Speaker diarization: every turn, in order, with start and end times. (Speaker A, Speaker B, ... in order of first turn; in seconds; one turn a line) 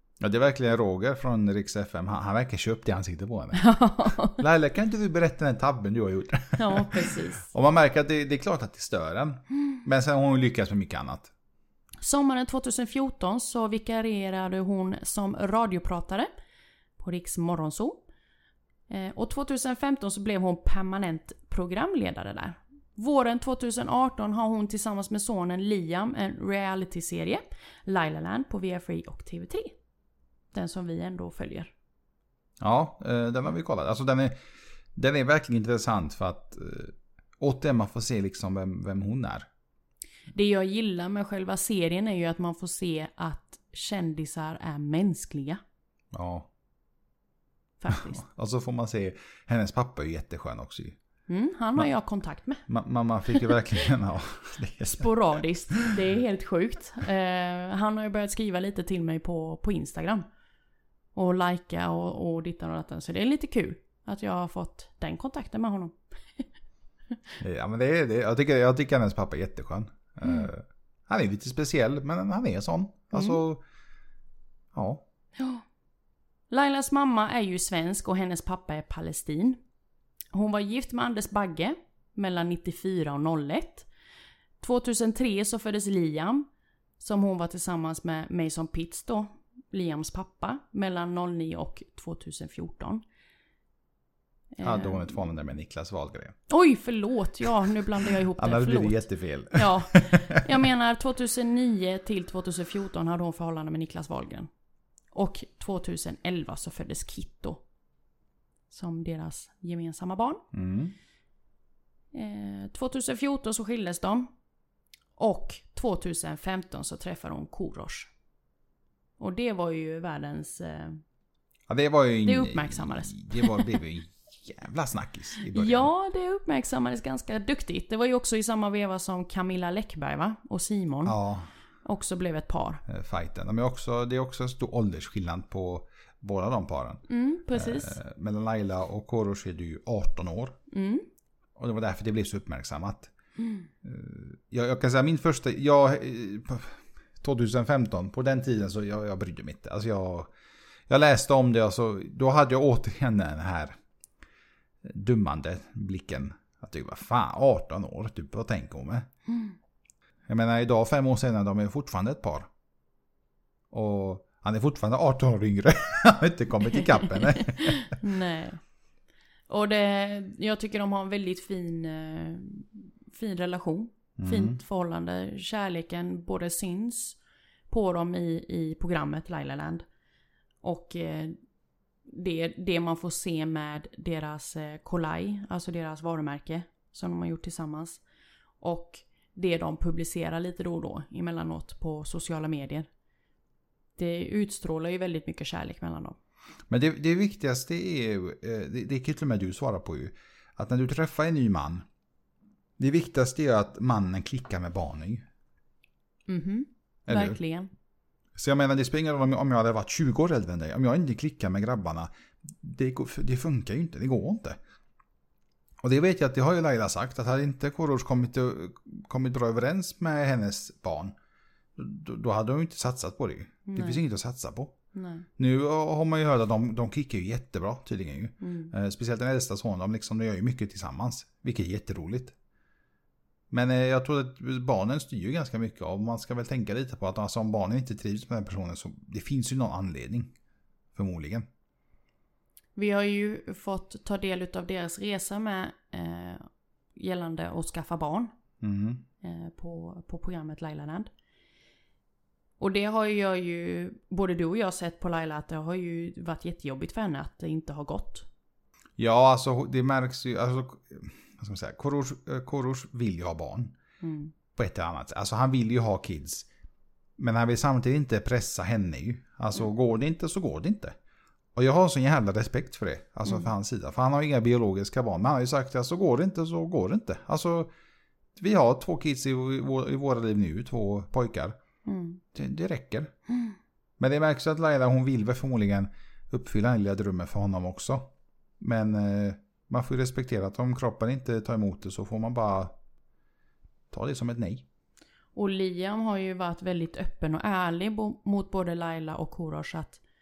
Speaker A: 0.2-3.6
Speaker B: 3.5-4.4
Speaker A: 4.3-11.3
Speaker B: 6.6-7.5
Speaker B: 12.0-16.3
Speaker B: 17.0-18.0
Speaker B: 18.9-29.8
Speaker B: 30.5-31.7
Speaker A: 32.6-34.4
Speaker A: 35.0-39.5
Speaker B: 40.3-45.6
Speaker A: 46.1-46.5
Speaker B: 47.8-48.2
Speaker A: 47.9-51.0
Speaker B: 51.3-52.6
Speaker A: 52.7-55.1
Speaker B: 53.3-53.6
Speaker B: 54.9-60.2
Speaker B: 61.1-66.5
Speaker A: 67.4-73.6
Speaker B: 73.1-73.4
Speaker A: 74.7-75.0
Speaker B: 75.4-75.6
Speaker B: 76.5-79.6
Speaker B: 80.3-83.9
Speaker B: 84.6-86.5
Speaker B: 87.0-93.0
Speaker B: 94.5-95.2
Speaker A: 94.6-96.4
Speaker B: 96.5-104.5
Speaker A: 98.3-100.6
Speaker B: 105.1-107.6
Speaker B: 108.7-110.4
Speaker A: 110.5-111.0
Speaker B: 112.1-114.3
Speaker B: 115.2-118.1
Speaker B: 119.2-121.0
Speaker A: 121.7-125.9
Speaker B: 122.2-123.8
Speaker B: 125.4-131.2
Speaker A: 131.1-131.5
Speaker B: 131.8-132.8
Speaker A: 132.9-140.6
Speaker B: 137.1-138.0
Speaker B: 140.7-141.1
Speaker A: 141.6-143.1
Speaker A: 143.8-150.3
Speaker A: 150.9-153.8
Speaker A: 154.8-159.1
Speaker B: 159.3-159.6
Speaker A: 160.3-162.5
Speaker A: 163.7-168.0
Speaker B: 166.7-168.6
Speaker B: 169.5-177.2
Speaker A: 174.2-174.6
Speaker B: 177.7-179.8
Speaker B: 180.6-181.4
Speaker B: 182.1-188.0
Speaker B: 188.6-192.9
Speaker B: 194.0-196.2
Speaker A: 196.7-201.8
Speaker A: 202.8-205.2
Speaker B: 206.3-207.7
Speaker A: 207.1-207.4
Speaker A: 208.4-214.6
Speaker A: 215.8-221.2
Speaker A: 221.8-224.8
Speaker B: 223.7-224.0
Speaker B: 224.9-225.3
Speaker A: 225.4-232.3
Speaker B: 228.4-228.7
Speaker A: 233.5-240.3
Speaker A: 240.9-241.5
Speaker B: 242.8-248.3
Speaker A: 248.6-249.0
Speaker B: 249.2-251.1
Speaker B: 252.6-258.3
Speaker A: 259.0-263.8
Speaker B: 264.0-264.3
Speaker A: 264.5-266.5
Speaker A: 267.2-271.0
Speaker A: 271.6-277.7
Speaker A: 278.4-281.6
Speaker B: 281.9-282.2
Speaker A: 282.3-283.1
Speaker B: 283.3-283.6
Speaker A: 284.0-292.7
Speaker A: 293.9-294.6
Speaker B: 295.4-300.0